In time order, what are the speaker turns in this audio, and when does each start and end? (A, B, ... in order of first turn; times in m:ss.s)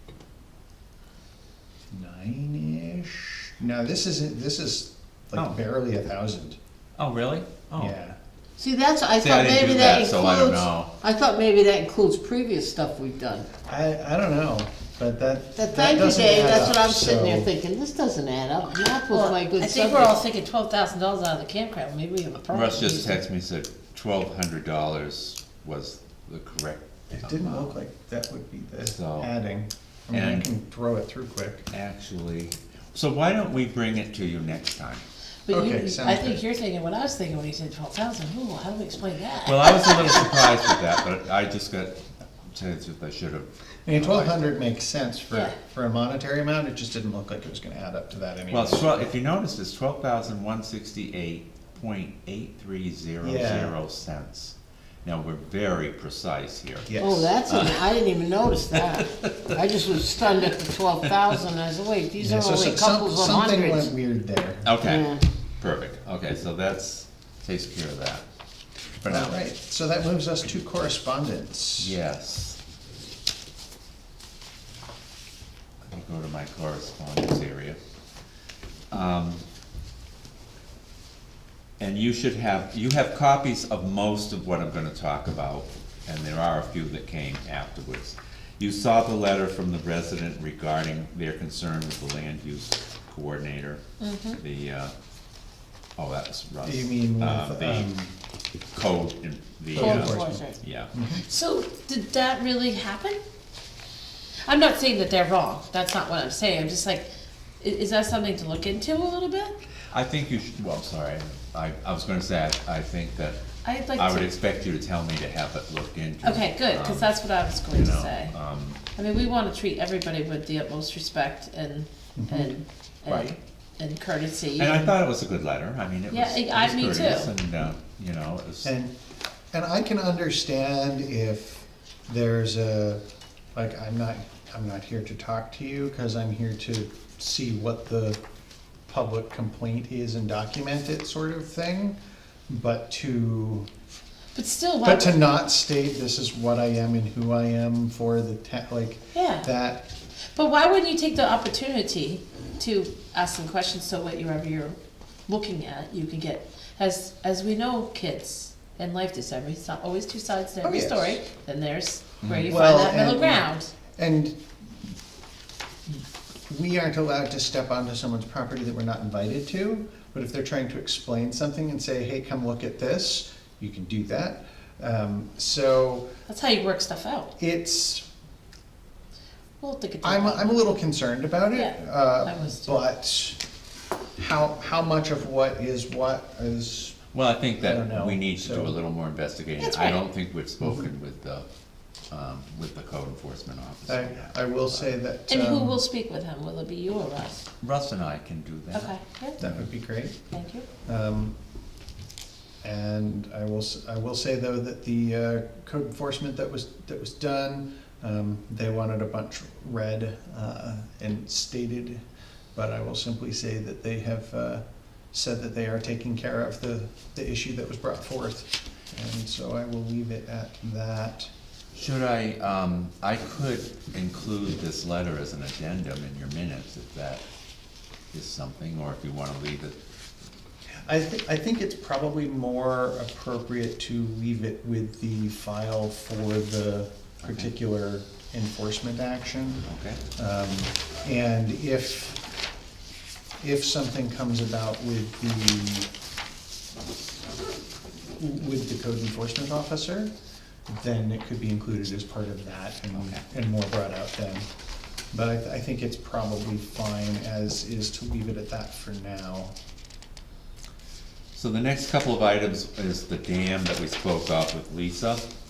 0:01.9-0:06.6 A
0:05.3-0:05.6 B
0:07.0-0:08.0 B
0:07.8-0:08.2 A
0:08.6-0:13.5 C
0:09.2-0:10.9 B
0:13.7-0:17.5 A
0:15.6-0:20.2 C
0:19.1-0:23.2 D
0:22.5-0:27.8 B
0:27.1-0:31.7 A
0:28.8-0:29.3 B
0:30.1-0:30.5 B
0:31.7-0:35.0 B
0:35.5-0:40.3 D
0:35.5-0:36.4 A
0:39.4-0:44.4 B
0:43.9-0:49.1 A
0:48.5-0:58.0 B
0:53.2-0:53.8 A
0:56.9-0:57.3 A
0:57.0-1:03.9 C
0:59.2-0:59.5 B
1:02.2-1:04.7 A
1:04.6-1:08.2 B
1:04.8-1:05.2 C
1:09.0-1:09.4 B
1:09.1-1:12.0 A
1:11.8-1:12.6 B
1:15.8-1:17.8 B
1:18.9-1:19.4 B
1:21.8-1:33.8 B
1:34.0-1:34.4 D
1:34.4-1:34.9 B
1:36.0-1:38.0 B
1:36.6-1:38.1 A
1:38.7-1:40.9 B
1:39.8-1:41.2 A
1:39.8-1:40.6 D
1:41.2-1:43.2 D
1:44.5-1:47.1 D
1:47.6-1:49.6 D
1:49.9-1:53.4 B
1:53.6-1:54.3 D
1:53.9-1:58.8 B
1:56.2-1:58.3 D
1:59.0-2:05.0 D
2:02.2-2:02.5 A
2:03.1-2:03.4 B
2:04.6-2:08.7 B
2:06.1-2:07.3 D
2:08.6-2:08.9 A
2:09.5-2:13.0 A
2:13.6-2:18.2 A
2:18.9-2:22.0 A
2:22.5-2:23.7 A
2:24.4-2:25.2 D
2:24.8-2:29.9 A
2:29.2-2:29.5 D
2:30.4-2:34.8 D
2:35.3-2:43.7 D
2:40.6-2:41.2 A
2:42.4-2:44.4 A
2:45.9-2:56.1 A
2:56.3-2:57.3 D
2:57.4-2:58.1 A
2:59.6-3:00.7 D
3:00.0-3:03.4 A
3:01.5-3:02.8 D
3:04.2-3:07.0 A
3:07.1-3:11.5 B
3:07.6-3:08.8 A
3:09.6-3:10.0 D
3:12.1-3:14.9 B
3:13.9-3:15.8 A
3:15.3-3:17.5 D
3:17.6-3:19.6 B
3:18.7-3:19.4 D
3:19.4-3:20.2 A
3:20.3-3:20.7 D
3:20.8-3:21.3 A
3:22.6-3:32.0 A
3:32.6-3:41.3 A
3:41.8-3:47.2 B
3:48.1-3:49.8 B
3:50.8-4:02.2 A
3:57.2-3:57.5 B
3:59.7-4:00.0 B
4:03.4-4:05.9 A
4:08.2-4:10.1 A
4:10.7-4:14.5 A
4:12.9-4:13.2 B
4:15.1-4:19.5 A
4:21.4-4:25.2 B